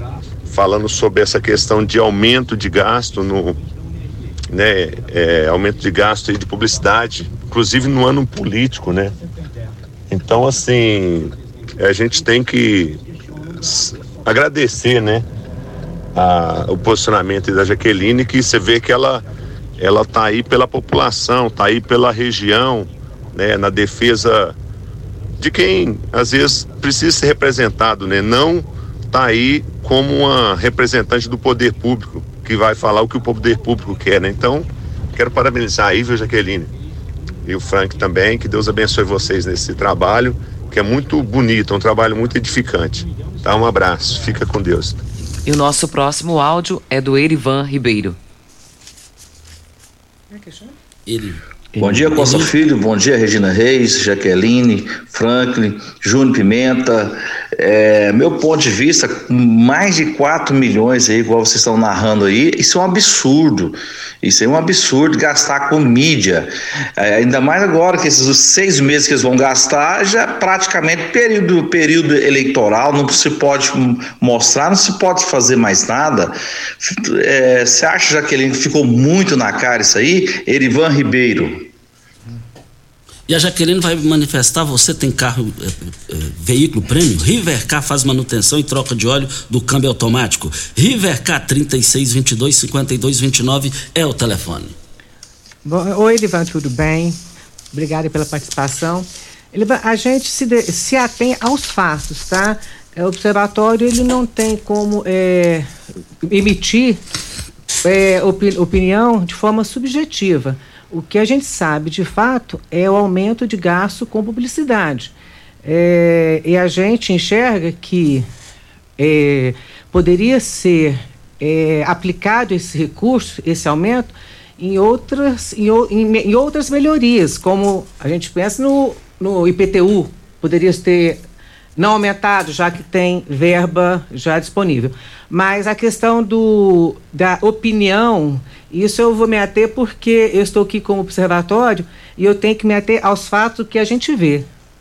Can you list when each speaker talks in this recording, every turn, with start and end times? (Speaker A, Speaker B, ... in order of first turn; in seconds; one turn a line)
Speaker A: 0.5-3.6
Speaker A: 4.5-9.1
Speaker A: 10.1-13.0
Speaker A: 13.6-15.2
Speaker A: 16.1-19.2
Speaker A: 19.8-24.5
Speaker A: 25.4-36.7
Speaker A: 37.5-45.0
Speaker B: 45.5-48.1
Speaker C: 50.3-50.7
Speaker D: 51.0-52.5
Speaker E: 51.8-81.7
Speaker D: 83.3-94.7
Speaker C: 95.6-97.2
Speaker C: 97.7-105.7
Speaker C: 106.2-107.0
Speaker C: 107.8-115.1
Speaker C: 115.6-118.3
Speaker C: 119.0-131.2
Speaker C: 131.8-144.5